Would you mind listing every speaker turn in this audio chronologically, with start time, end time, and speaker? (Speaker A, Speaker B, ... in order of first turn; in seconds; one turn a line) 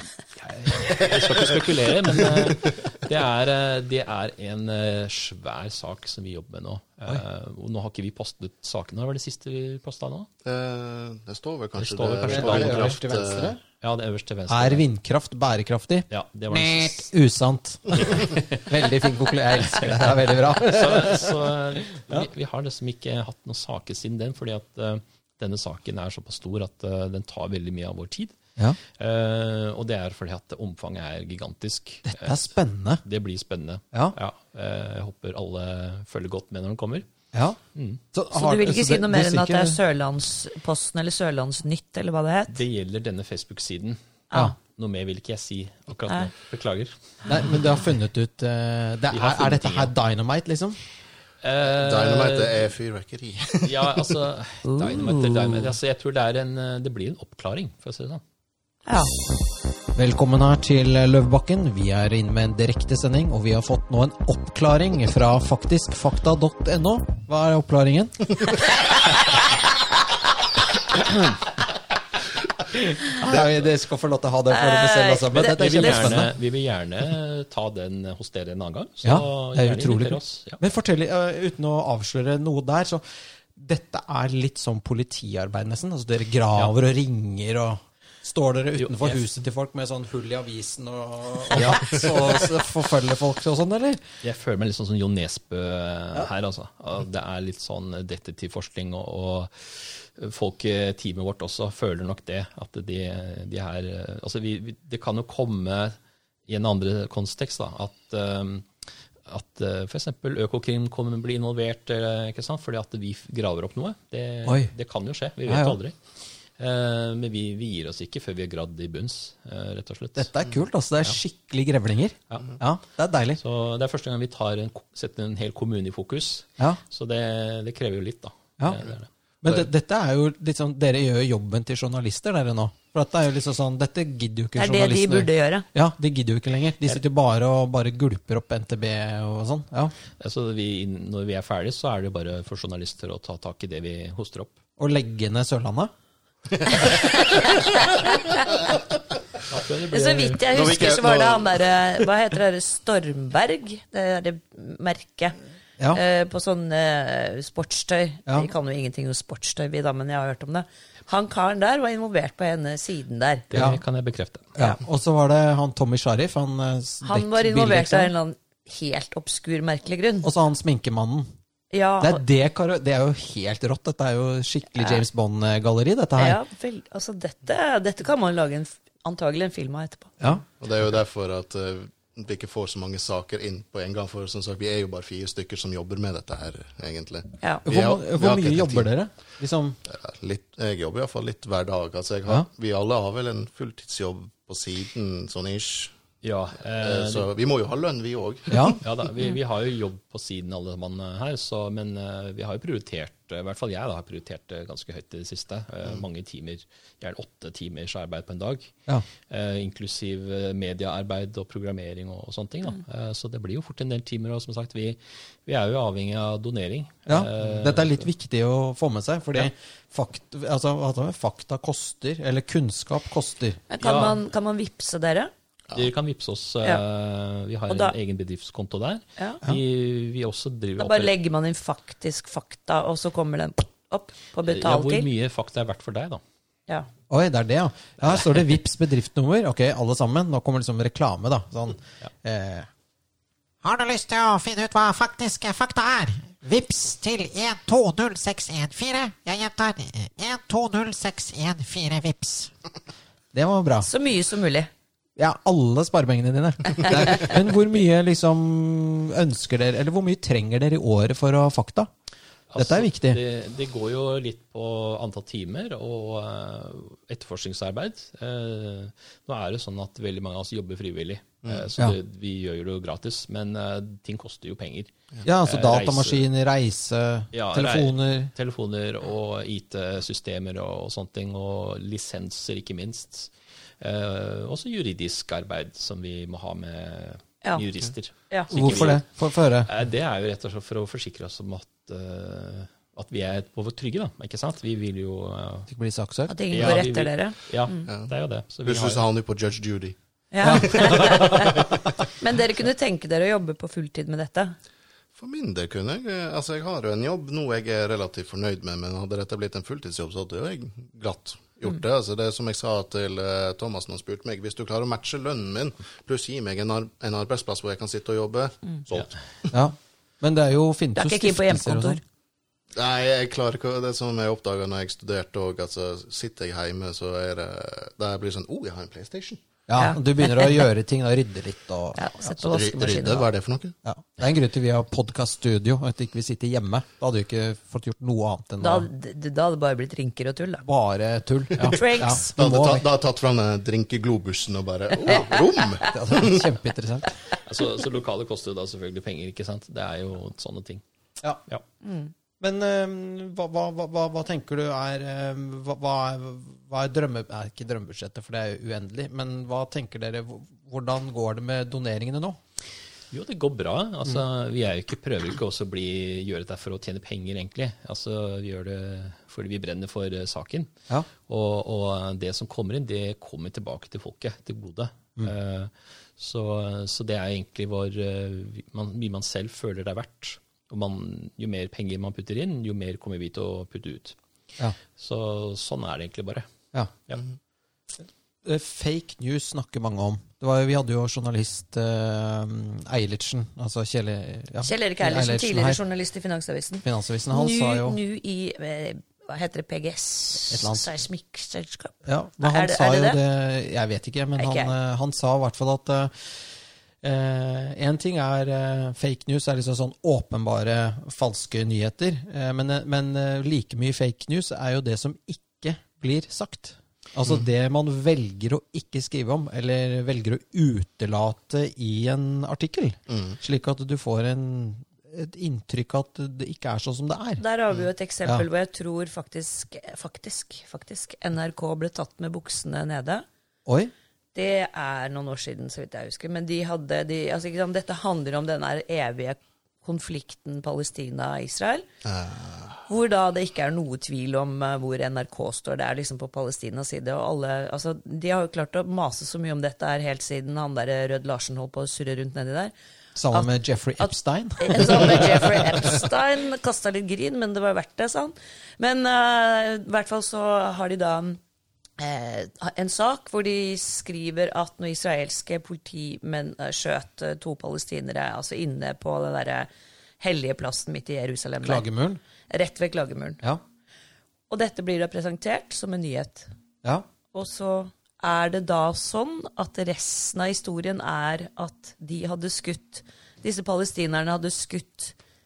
Speaker A: 0.4-10.3
Speaker B: 10.4-13.5
Speaker A: 11.8-13.0
Speaker C: 12.3-13.6
Speaker A: 13.8-14.8
Speaker C: 14.5-22.2
Speaker A: 16.1-17.1
Speaker A: 18.0-18.4
Speaker A: 19.8-28.4
Speaker A: 28.9-32.4
Speaker C: 32.1-33.0
Speaker A: 33.0-37.0
Speaker C: 37.3-37.6
Speaker A: 37.7-38.0
Speaker C: 38.1-39.8
Speaker D: 38.3-42.6
Speaker A: 42.5-44.0
Speaker A: 44.6-46.9
Speaker C: 47.2-50.8
Speaker A: 49.1-49.9
Speaker A: 51.4-52.6
Speaker B: 51.6-54.1
Speaker A: 53.6-58.2
Speaker D: 54.7-55.5
Speaker D: 58.9-59.1
Speaker C: 60.0-68.3
Speaker C: 72.7-76.3
Speaker D: 74.5-76.2
Speaker A: 75.3-80.6
Speaker C: 79.0-83.0
Speaker C: 83.5-94.0
Speaker A: 88.8-89.2
Speaker A: 91.5-91.9
Speaker A: 94.2-108.7
Speaker A: 109.3-115.9
Speaker C: 114.5-114.7
Speaker C: 115.5-115.8
Speaker A: 116.6-120.3
Speaker C: 120.2-123.4
Speaker A: 123.4-129.1
Speaker C: 129.4-139.9
Speaker D: 134.6-135.7
Speaker A: 140.2-144.5
Speaker C: 144.8-145.9
Speaker B: 146.6-147.4
Speaker D: 146.8-148.3
Speaker A: 149.4-150.7
Speaker D: 149.9-155.3
Speaker B: 150.5-151.8
Speaker D: 155.9-163.4
Speaker A: 163.5-164.6
Speaker C: 163.5-163.8
Speaker C: 164.5-168.1
Speaker D: 167.0-170.3
Speaker C: 170.2-171.3
Speaker D: 171.7-172.2
Speaker C: 172.0-176.4
Speaker D: 176.2-180.2
Speaker B: 180.6-188.9
Speaker C: 187.7-189.8
Speaker B: 189.8-195.9
Speaker A: 196.2-197.3
Speaker B: 196.8-198.8
Speaker C: 198.5-198.8
Speaker A: 198.8-208.7
Speaker A: 209.3-218.0
Speaker C: 217.1-223.6
Speaker D: 223.7-225.3
Speaker A: 223.8-224.2
Speaker A: 225.7-231.1
Speaker D: 227.7-227.9
Speaker D: 230.8-235.1
Speaker A: 234.4-236.2
Speaker C: 237.1-242.7
Speaker E: 243.6-252.5
Speaker C: 253.3-253.9
Speaker D: 253.8-254.7
Speaker C: 255.2-261.9
Speaker A: 262.5-274.9
Speaker C: 262.6-263.2
Speaker C: 275.2-278.3
Speaker A: 275.4-276.2
Speaker A: 277.3-289.1
Speaker C: 288.5-289.7
Speaker A: 289.6-295.7
Speaker C: 295.7-296.7
Speaker D: 296.3-297.9
Speaker A: 296.5-299.0
Speaker B: 298.6-301.7
Speaker D: 300.3-301.6
Speaker C: 300.4-301.2
Speaker D: 302.2-304.5
Speaker B: 305.1-319.1
Speaker C: 319.5-322.0
Speaker D: 320.9-322.0
Speaker B: 322.7-329.4
Speaker C: 329.7-332.0
Speaker D: 329.8-330.6
Speaker D: 331.9-333.2
Speaker B: 332.4-333.7
Speaker C: 333.8-338.9
Speaker D: 338.6-340.6
Speaker C: 340.6-342.8
Speaker D: 341.6-342.3
Speaker B: 342.4-346.4
Speaker D: 345.1-345.4
Speaker C: 345.9-347.1
Speaker A: 347.4-350.8
Speaker D: 351.8-352.1
Speaker C: 352.4-362.4
Speaker A: 363.1-370.7
Speaker A: 371.3-384.1
Speaker A: 385.0-386.4
Speaker C: 388.4-395.8
Speaker D: 394.6-403.2
Speaker C: 396.8-398.0
Speaker C: 400.5-400.9
Speaker C: 402.1-406.4
Speaker D: 404.4-404.7
Speaker C: 407.0-427.4
Speaker B: 423.1-423.4
Speaker D: 427.4-433.2
Speaker C: 433.7-433.9
Speaker D: 434.3-441.9
Speaker B: 442.0-442.8
Speaker D: 442.9-452.7
Speaker C: 453.1-455.7
Speaker D: 454.0-461.4
Speaker D: 462.0-469.7
Speaker D: 470.2-471.9
Speaker C: 471.6-472.2
Speaker D: 472.5-473.4
Speaker D: 474.5-476.5
Speaker D: 477.3-485.1